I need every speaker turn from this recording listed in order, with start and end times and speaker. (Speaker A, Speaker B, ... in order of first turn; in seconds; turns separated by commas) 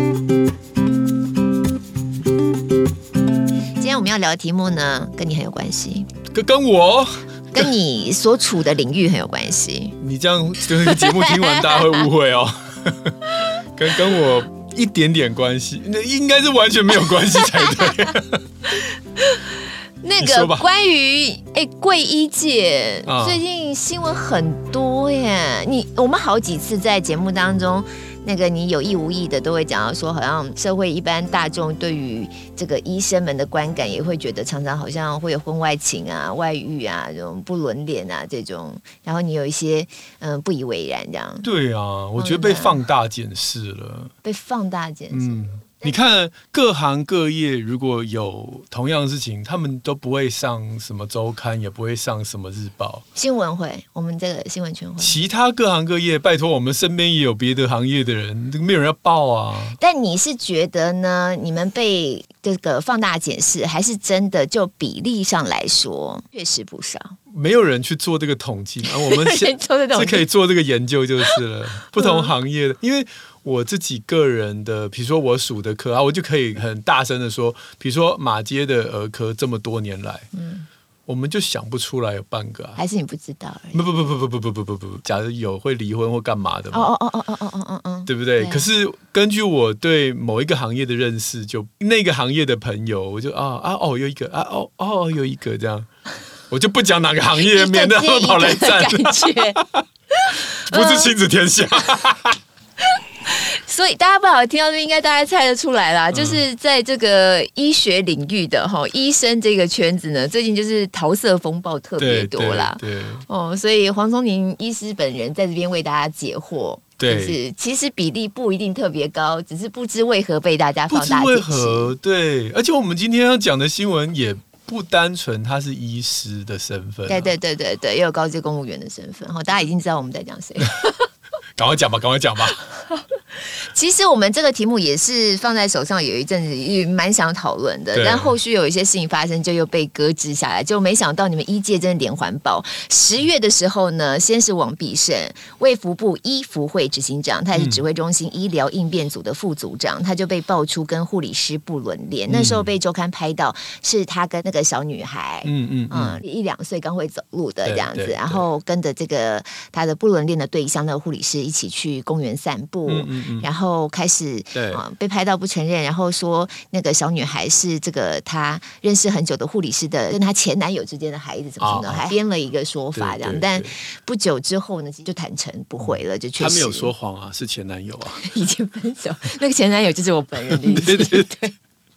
Speaker A: 3.8-6.1, Speaker B: 6.3-7.6, Speaker A: 7.5-9.9, Speaker B: 10.0-18.4, Speaker A: 10.9-12.0, Speaker A: 17.6-17.9, Speaker A: 18.7-41.5, Speaker B: 20.2-20.6, Speaker B: 23.1-23.4, Speaker B: 41.4-44.1, Speaker A: 42.2-42.8, Speaker A: 44.2-46.0, Speaker B: 45.1-53.0, Speaker A: 53.1-55.2, Speaker B: 55.0-59.8, Speaker A: 59.8-67.2, Speaker B: 67.3-80.3, Speaker A: 69.0-70.2, Speaker A: 72.0-72.3, Speaker A: 80.3-80.7, Speaker B: 81.1-82.8, Speaker A: 82.8-83.8, Speaker B: 83.7-86.9, Speaker A: 86.7-88.7, Speaker B: 88.1-95.9, Speaker B: 96.5-102.4, Speaker A: 97.3-99.6, Speaker A: 100.2-101.1, Speaker A: 102.9-121.9, Speaker B: 106.1-106.4, Speaker B: 112.0-113.2, Speaker B: 117.0-117.4, Speaker B: 120.9-127.3, Speaker A: 127.1-131.1, Speaker B: 131.6-132.6, Speaker A: 132.9-176.9, Speaker B: 137.9-138.3, Speaker B: 147.5-147.8, Speaker B: 152.3-152.7, Speaker B: 155.4-156.2, Speaker B: 157.6-158.4, Speaker B: 162.9-163.5, Speaker B: 164.5-164.8, Speaker B: 171.6-172.1, Speaker B: 172.9-173.7, Speaker B: 175.8-178.2, Speaker A: 178.2-181.5, Speaker B: 180.5-181.3